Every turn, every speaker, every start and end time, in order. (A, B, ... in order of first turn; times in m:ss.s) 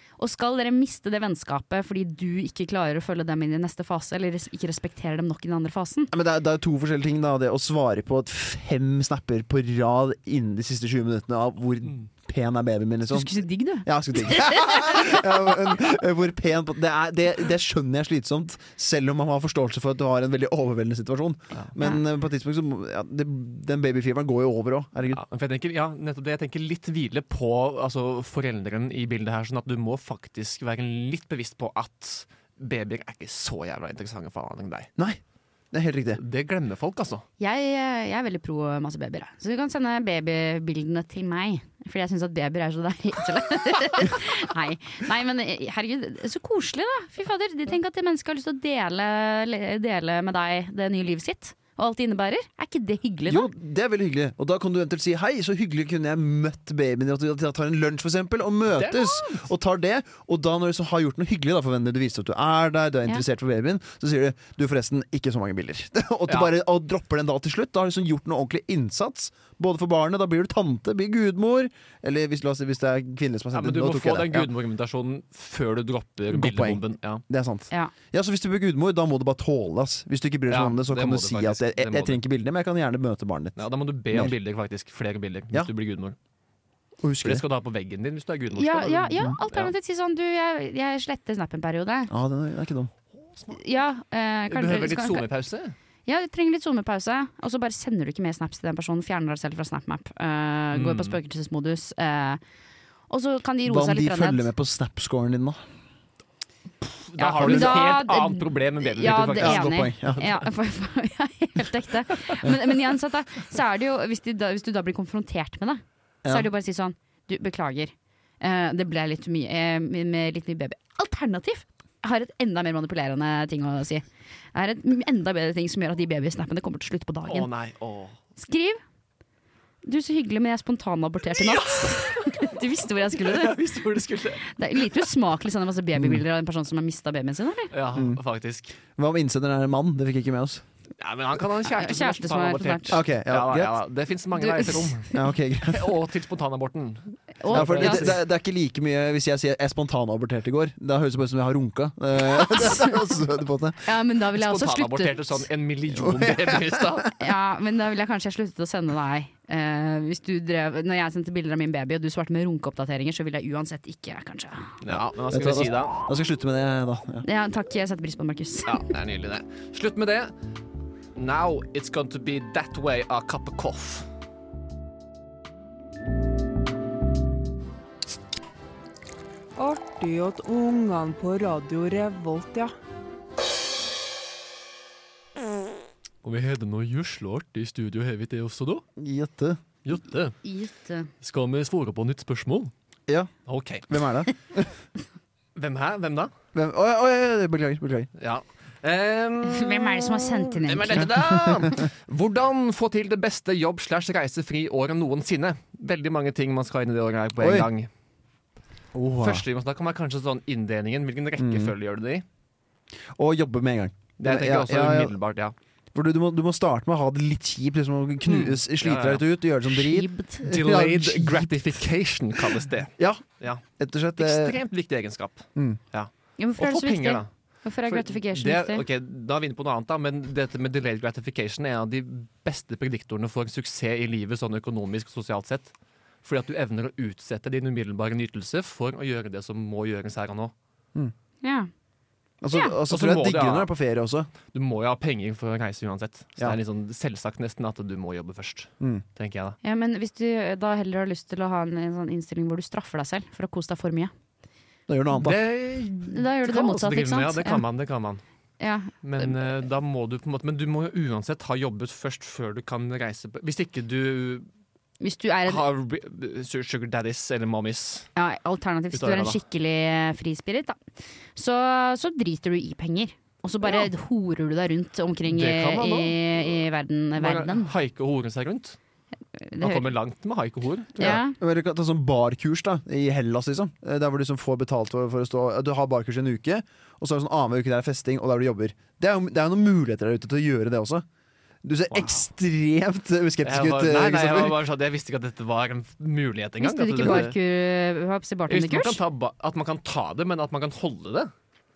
0:00.2-0:06.1 A
0:06.1-0:25.2 B
0:13.1-0:15.0 A
0:25.1-0:34.9 C
0:35.7-0:36.2 B
0:36.2-0:37.2 C
0:37.4-0:53.5 A
0:53.3-1:14.5 B
0:58.7-0:59.4 C
1:06.3-1:06.5 C
1:13.5-1:17.2 C
1:16.3-1:23.6 B
1:20.5-1:22.2 C
1:23.6-1:26.2 C
1:27.0-1:27.4 B
1:27.2-1:29.7 C
1:28.6-1:32.1 A
1:32.1-1:32.9 B
1:33.5-1:35.3 A
1:34.5-1:35.8 C
1:36.1-1:42.4 A
1:40.7-1:41.2 C
1:43.1-1:44.5 A
1:43.6-1:45.6 B
1:46.9-1:50.3 C
1:47.2-2:07.5 A
1:47.4-1:47.9 B
1:49.1-1:50.3 B
1:56.2-1:56.5 B
2:07.3-2:08.2 C
2:08.4-2:08.8 A
2:09.8-2:13.6 A
2:11.4-2:15.1 C
2:14.6-2:17.7 A
2:16.0-2:16.2 B
2:17.7-2:18.7 C
2:17.9-2:18.2 B
2:19.0-2:20.6 B
2:21.0-2:25.1 C
2:21.8-2:23.0 A
2:22.9-2:23.8 B
2:24.4-2:25.1 A
2:25.1-2:26.0 B
2:25.7-2:28.2 C
2:27.4-2:28.1 A
2:27.5-2:33.8 B
2:33.8-2:35.4 A
2:34.4-2:37.1 C
2:36.0-2:36.9 B
2:37.2-2:44.8 A
2:44.8-2:45.9 C
2:44.9-2:47.3 B
2:47.2-2:48.8 A
2:48.7-2:50.3 C
2:51.2-2:54.1 C
2:59.6-3:02.7 D
3:06.2-3:08.8 C
3:09.0-3:09.6 B
3:09.8-3:10.4 C
3:10.4-3:11.1 A
3:11.2-3:12.7 C
3:13.5-3:13.9 C
3:13.9-3:14.7 B
3:15.6-3:16.3 C
3:16.5-3:18.1 B
3:18.2-3:27.9 C
3:19.5-3:21.1 A
3:20.9-3:21.7 B
3:27.4-3:27.7 B
3:28.9-3:29.4 B
3:29.2-3:32.2 C
3:31.4-3:31.7 B
3:33.2-3:35.1 B
3:34.2-3:35.6 C
3:36.0-3:41.8 B
3:38.2-3:39.2 C
3:39.9-3:40.5 A
3:40.5-3:43.6 C
3:43.0-3:44.6 B
3:44.2-3:47.3 C
3:46.4-3:48.8 A
3:47.9-3:55.7 C
3:56.2-4:00.5 C
4:01.4-4:01.7 A
4:02.4-4:04.3 B
4:02.9-4:03.7 C
4:04.5-4:09.6 C
4:09.6-4:14.1 A
4:14.9-4:15.4 B
4:15.1-4:18.2 C
4:16.1-4:17.6 A
4:18.6-4:19.3 A
4:19.0-4:24.5 C
4:25.0-4:25.6 A
4:25.5-4:28.1 C
4:28.2-4:30.8 A
4:28.9-4:29.4 C
4:31.4-4:37.7 A
4:33.6-4:33.9 C
4:35.3-4:36.6 C
4:37.2-4:38.8 C
4:39.4-4:39.9 A
4:39.6-4:41.2 C
4:41.0-4:51.1 B
4:41.0-4:41.4 A
4:51.6-4:54.6 B
4:51.9-4:52.2 C
4:53.4-4:57.4 C
4:56.6-4:59.0 A
4:57.0-4:57.3 B
4:58.5-5:01.3 C